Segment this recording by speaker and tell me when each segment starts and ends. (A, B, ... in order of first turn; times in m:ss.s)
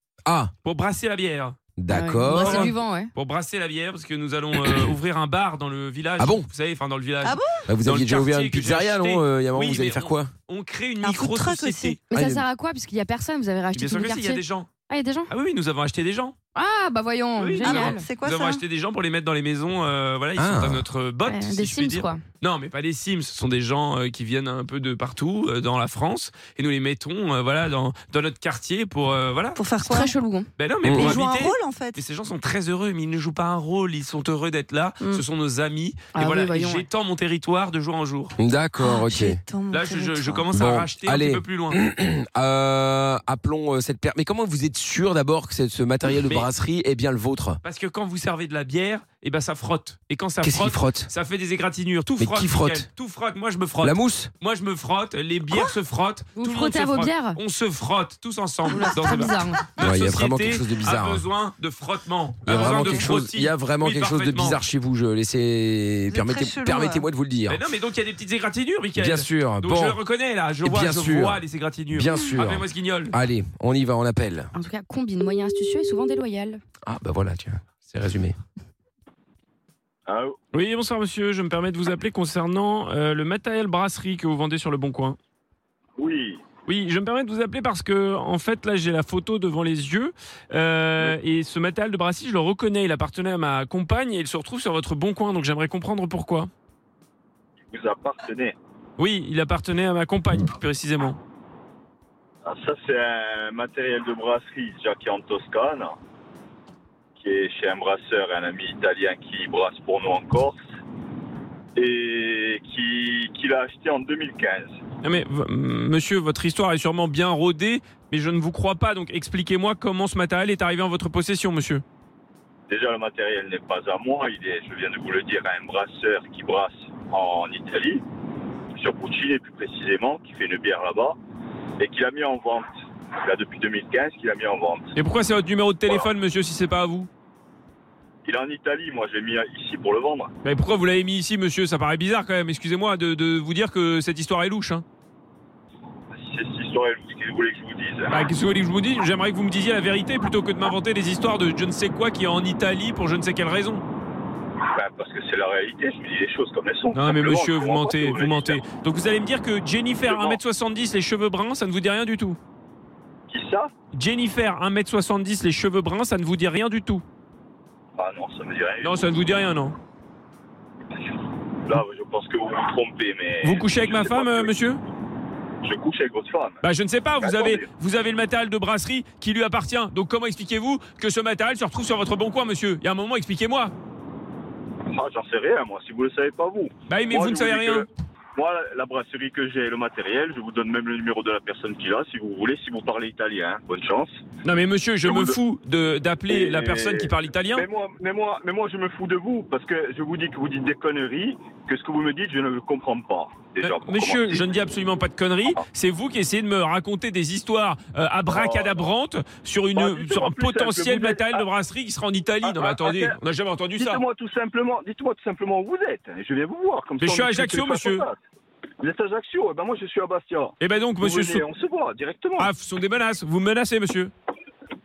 0:00.2-0:00.5 A
0:00.6-0:01.6 B
0:01.8-0:02.7 A
0:01.9-0:03.1 C
0:02.3-0:12.0 B
0:06.2-0:06.5 A
0:07.2-0:07.6 D
0:07.7-0:10.3 A
0:11.0-0:12.0 D
0:12.1-0:15.3 C
0:12.1-0:12.4 A
0:13.7-0:14.7 B
0:15.3-0:16.4 B
0:16.5-0:18.1 C
0:17.4-0:29.6 B
0:17.6-0:18.6 D
0:20.4-0:20.8 A
0:21.2-0:22.2 C
0:29.6-0:30.1 D
0:29.8-0:30.5 C
0:30.6-0:38.3 B
0:30.8-0:31.2 A
0:30.9-0:32.0 D
0:36.1-0:36.8 C
0:38.4-0:39.4 A
0:38.8-0:40.5 D
0:39.7-0:41.8 B
0:40.5-0:47.6 A
0:46.2-0:46.5 B
0:47.6-1:04.6 B
0:50.4-0:51.1 A
0:52.2-0:52.9 A
0:53.8-0:54.3 A
0:56.4-0:57.4 C
0:58.7-0:59.2 D
0:58.7-0:59.6 C
0:59.8-1:01.2 A
1:02.4-1:07.6 A
1:02.5-1:02.8 D
1:06.1-1:07.0 D
1:07.5-1:13.1 B
1:09.0-1:10.0 A
1:10.6-1:14.5 A
1:14.5-1:16.6 C
1:16.8-1:18.4 A
1:20.1-1:20.4 E
1:20.5-1:25.2 B
1:26.0-1:26.4 E
1:26.6-1:36.5 B
1:37.7-1:38.6 E
1:39.0-1:41.2 B
1:42.4-1:45.9 E
1:47.2-1:50.6 E
1:51.7-1:54.7 E
1:55.0-2:01.8 B
2:02.7-2:08.0 E
2:08.7-2:11.2 E
2:11.8-2:12.7 E
2:13.2-2:14.9 E
2:14.9-2:17.1 B
2:18.2-2:20.3 E
2:20.4-2:24.8 B
2:26.1-2:28.2 E
2:28.1-2:33.8 B
2:34.7-2:38.6 E
2:36.9-2:42.4 B
2:40.0-2:40.4 E
2:43.3-2:43.7 E
2:43.9-2:47.0 B
2:48.0-2:49.1 E
2:48.8-2:49.8 B
2:51.6-2:54.5 E
2:53.4-2:54.8 B
2:55.6-2:56.6 E
2:56.6-3:03.7 B
2:57.2-2:57.6 E
3:04.9-3:14.1 E
3:06.9-3:07.8 B
3:14.4-3:17.6 B
3:15.0-3:15.4 E
3:16.3-3:24.4 E
3:23.6-3:34.0 B
3:28.3-3:28.9 E
3:29.7-3:31.4 E
3:32.4-3:33.2 E
3:33.8-3:38.2 E
3:37.0-3:38.0 B
3:38.8-3:42.5 E
3:40.6-3:41.4 B
3:42.4-3:44.1 B